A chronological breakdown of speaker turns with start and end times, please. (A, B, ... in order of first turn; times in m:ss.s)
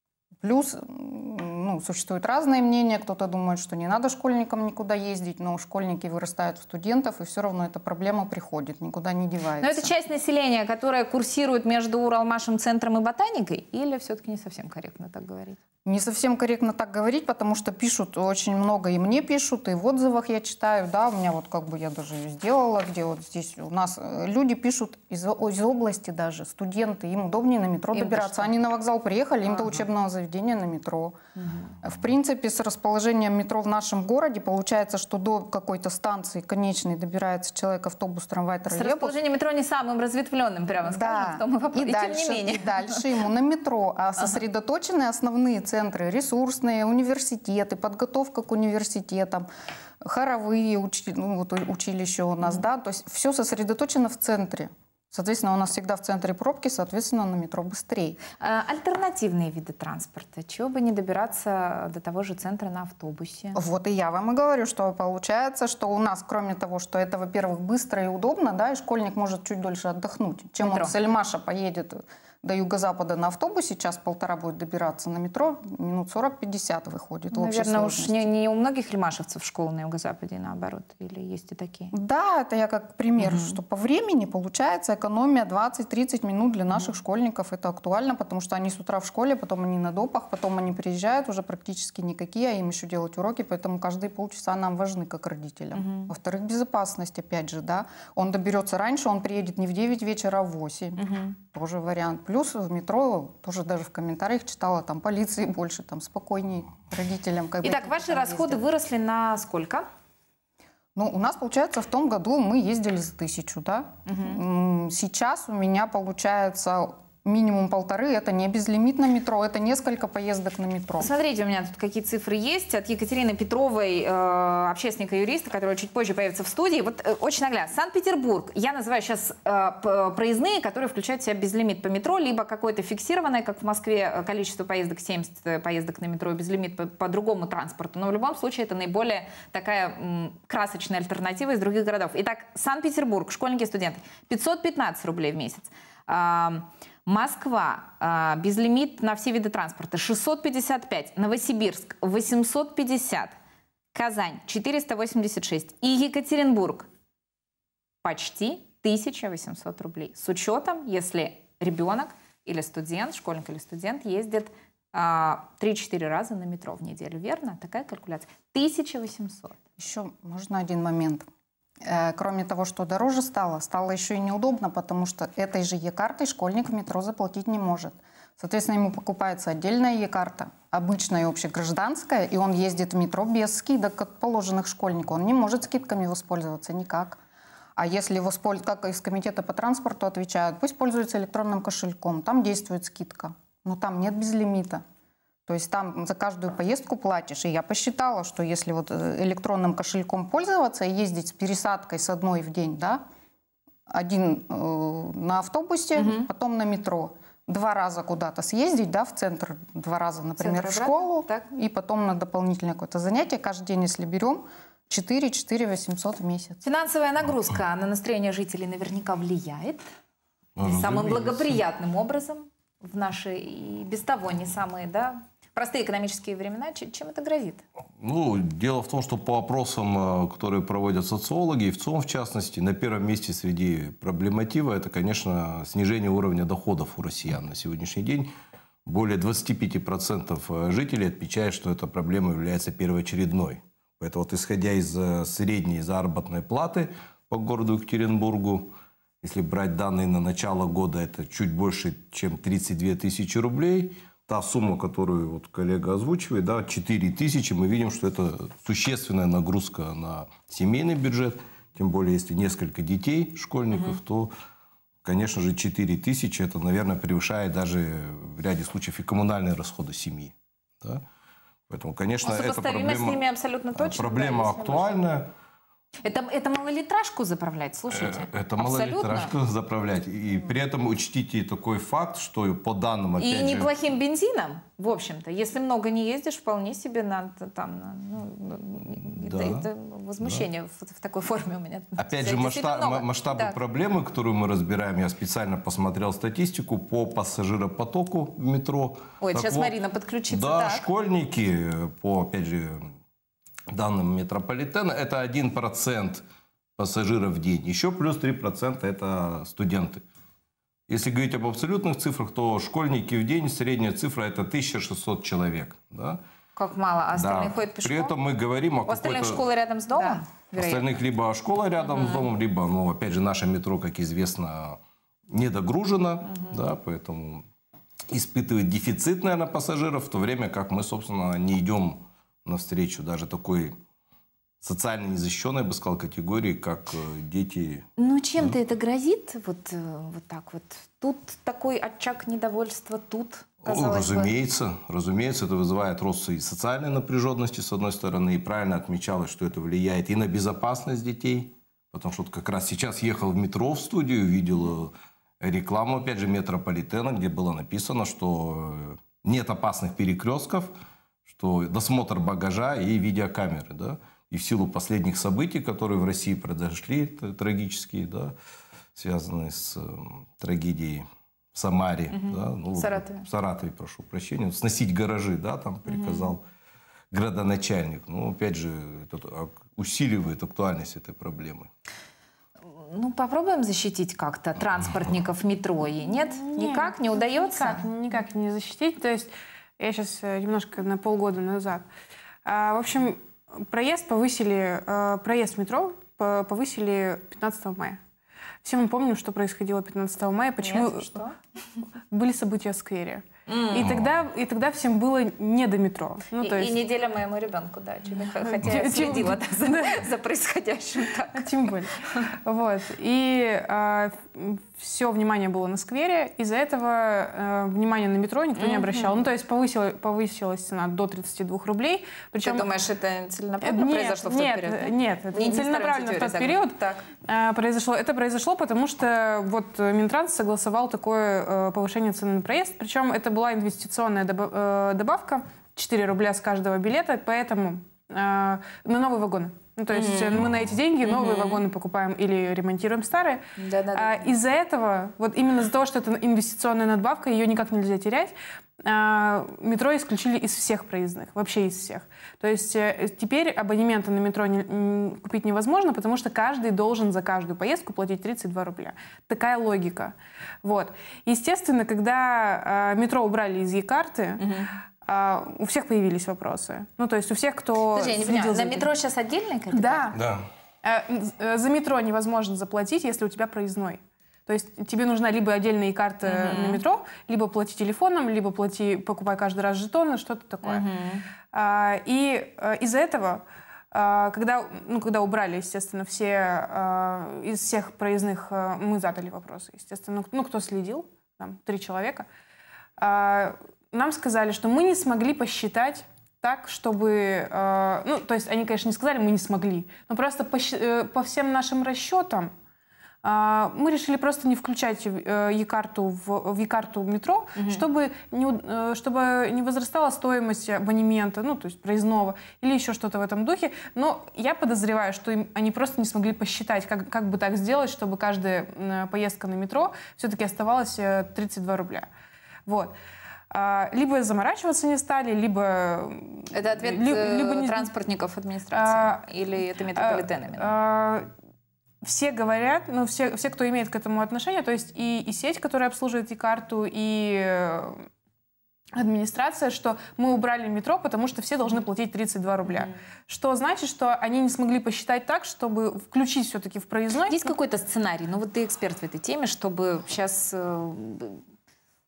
0:00.4-0:09.9 A
0:09.6-0:15.6 B
0:15.8-0:31.2 A
0:27.9-0:28.6 B
0:29.5-0:29.8 B
0:31.4-0:31.7 B
0:31.8-0:39.2 A
0:38.7-0:43.0 B
0:40.9-0:49.5 A
0:50.0-0:58.2 A
0:58.4-1:03.6 B
1:03.6-1:18.2 A
1:10.6-1:11.0 B
1:17.3-1:21.9 B
1:21.9-1:48.6 A
1:23.2-1:23.6 B
1:35.7-1:36.1 B
1:41.0-1:41.3 B
1:47.6-1:49.8 B
1:51.0-2:01.1 A
1:54.1-1:54.4 B
2:01.0-2:33.3 B
2:33.9-2:36.9 B
2:38.0-2:49.6 B
2:49.8-2:51.2 A
2:51.8-3:07.2 A
3:07.8-3:14.8 A
3:15.5-3:23.0 A
3:23.9-3:36.6 A
3:26.0-3:26.3 B
3:30.4-3:31.4 B
3:36.6-3:39.8 B
3:40.6-3:41.6 C
3:40.6-3:47.6 B
3:48.0-3:58.3 C
3:58.9-4:24.3 C
4:23.7-4:24.0 B
4:25.0-4:31.0 C
4:31.7-4:33.2 C
4:32.2-4:35.0 B
4:33.8-4:35.3 C
4:36.0-4:39.3 B
4:37.9-4:43.7 C
4:43.2-4:53.6 B
4:49.2-4:49.7 C
4:50.2-4:50.5 C
4:52.0-4:59.8 C
4:59.2-5:00.8 B
5:00.3-5:02.9 C
5:03.7-5:06.2 C
5:06.8-5:10.0 C
5:10.9-5:16.2 C
5:16.6-5:18.2 B
5:17.1-5:19.4 C
5:18.9-5:21.0 B
5:20.5-5:27.5 C
5:21.8-5:22.3 B
5:26.3-5:26.6 B
5:28.1-5:33.8 C
5:34.6-5:37.9 C
5:38.0-5:44.3 B
5:43.6-6:00.7 C
6:01.3-6:08.3 C
6:09.0-6:16.4 C
6:12.1-6:13.3 B
6:15.9-6:16.3 B
6:17.1-6:21.7 C
6:22.9-6:27.8 B
6:26.4-6:31.9 D
6:32.4-6:38.0 D
6:38.6-6:41.1 D
6:40.6-6:41.4 B
6:42.1-6:46.8 D
6:43.5-6:43.9 B
6:46.4-6:51.5 B
6:48.4-6:50.0 D
6:51.3-7:02.7 D
6:58.6-6:59.2 B
7:02.4-7:07.0 B
7:03.6-7:23.4 D
7:19.9-7:20.5 B
7:21.0-7:21.6 B
7:23.6-7:24.3 B
7:23.9-7:44.4 D
7:44.4-7:44.7 B
7:45.0-7:48.9 D
7:47.9-7:50.1 B
7:49.7-7:50.2 D
7:50.1-7:50.5 C
7:50.8-8:00.9 D
7:56.2-7:56.8 B
8:00.6-8:01.2 B
8:01.5-8:12.3 D
8:13.0-8:22.5 D
8:23.2-8:42.1 D
8:27.6-8:27.8 B
8:42.7-8:42.9 D
8:43.5-8:47.9 D
8:46.5-8:50.7 B
8:48.7-8:49.3 D
8:49.9-8:51.3 D
8:52.0-8:58.0 D
8:59.0-9:07.5 D
9:07.3-9:11.4 B